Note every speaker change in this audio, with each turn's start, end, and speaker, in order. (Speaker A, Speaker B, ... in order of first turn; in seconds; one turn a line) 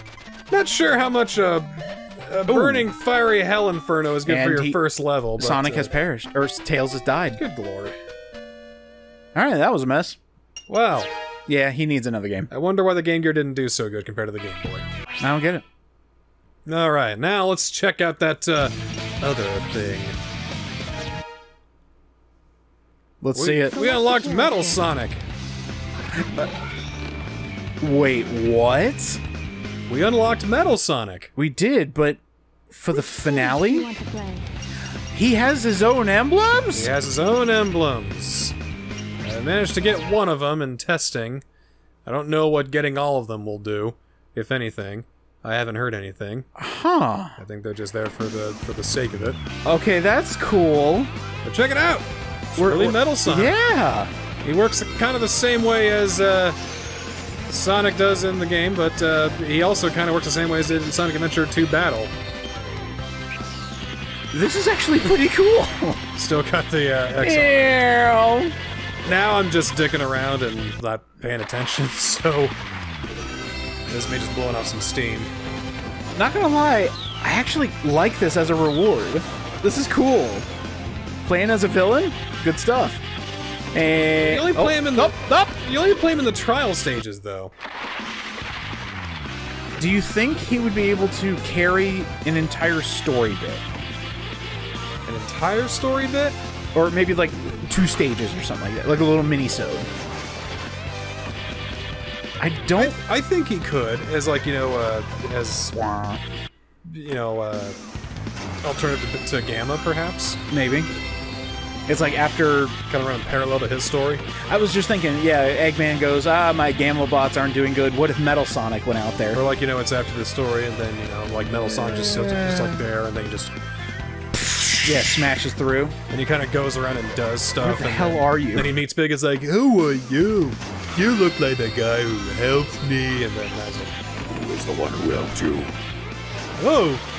Speaker A: 0.5-5.9
Speaker B: 2.5-2.9
Speaker B: 4.2-4.8
Speaker B: 5.4-7.4
Speaker A: 7.4-8.0
Speaker B: 9.3-10.2
Speaker A: 10.7-11.1
Speaker B: 11.5-12.5
Speaker A: 12.5-14.9
Speaker B: 15.2-15.7
Speaker A: 16.7-20.2
Speaker B: 23.2-23.8
Speaker A: 23.3-25.2
Speaker C: 23.7-24.8
Speaker B: 26.2-26.5
Speaker B: 27.8-29.2
Speaker A: 29.9-31.3
Speaker B: 31.4-32.2
Speaker B: 32.7-33.9
Speaker C: 33.0-34.5
Speaker B: 35.1-36.9
Speaker A: 36.7-38.5
Speaker A: 39.2-41.4
Speaker A: 42.1-46.5
Speaker B: 46.6-47.4
Speaker A: 47.4-49.4
Speaker B: 49.6-51.1
Speaker A: 51.4-53.6
Speaker B: 52.6-54.1
Speaker A: 54.4-56.6
Speaker A: 57.5-62.1
Speaker B: 64.3-66.0
Speaker A: 66.2-67.6
Speaker B: 67.2-68.6
Speaker A: 69.0-72.5
Speaker A: 73.9-75.3
Speaker B: 76.2-80.5
Speaker B: 81.2-83.0
Speaker B: 83.7-85.6
Speaker A: 84.2-87.5
Speaker B: 89.8-93.7
Speaker A: 95.1-96.4
Speaker B: 96.7-99.9
Speaker B: 102.4-103.0
Speaker A: 102.8-105.8
Speaker B: 105.8-106.2
Speaker A: 106.8-107.8
Speaker A: 108.6-110.4
Speaker B: 110.5-110.9
Speaker B: 111.9-112.8
Speaker A: 112.9-114.3
Speaker B: 114.4-119.4
Speaker A: 119.3-123.5
Speaker B: 121.6-122.9
Speaker A: 124.3-125.0
Speaker B: 124.8-126.0
Speaker A: 126.1-135.7
Speaker B: 127.6-128.8
Speaker A: 136.6-137.0